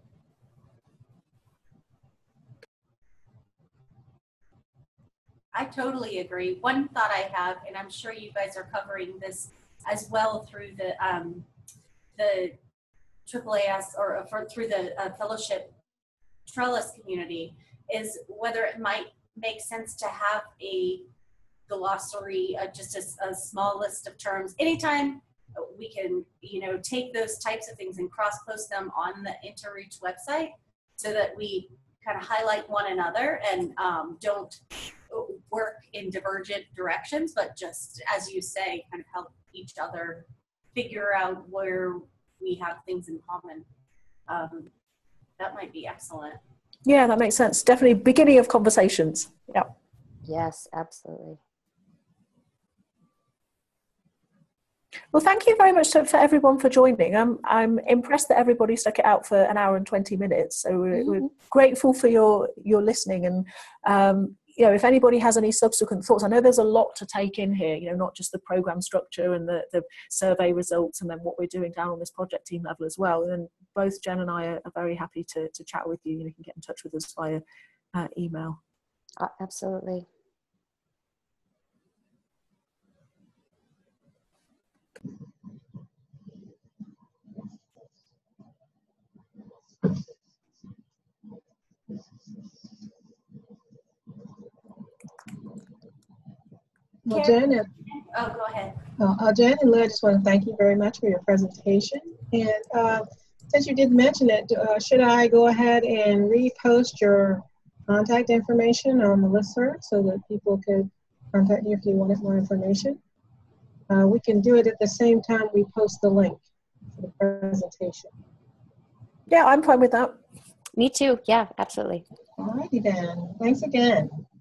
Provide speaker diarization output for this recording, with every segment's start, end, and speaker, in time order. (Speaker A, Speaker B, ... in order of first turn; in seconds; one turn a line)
Speaker A: 5.5-11.5
Speaker A: 12.2-12.6
Speaker A: 13.3-15.8
Speaker A: 16.5-21.1
Speaker A: 21.7-43.7
Speaker A: 44.3-44.7
Speaker A: 45.4-46.4
Speaker B: 46.9-49.7
Speaker C: 50.3-51.4
Speaker B: 55.1-77.4
Speaker B: 77.9-78.6
Speaker C: 79.2-80.1
Speaker D: 97.0-97.7
Speaker A: 97.1-97.4
Speaker A: 98.1-98.8
Speaker D: 99.0-113.0
Speaker D: 113.9-116.4
Speaker D: 116.9-118.1
Speaker B: 119.3-120.2
Speaker C: 120.8-122.0
Speaker D: 122.4-124.2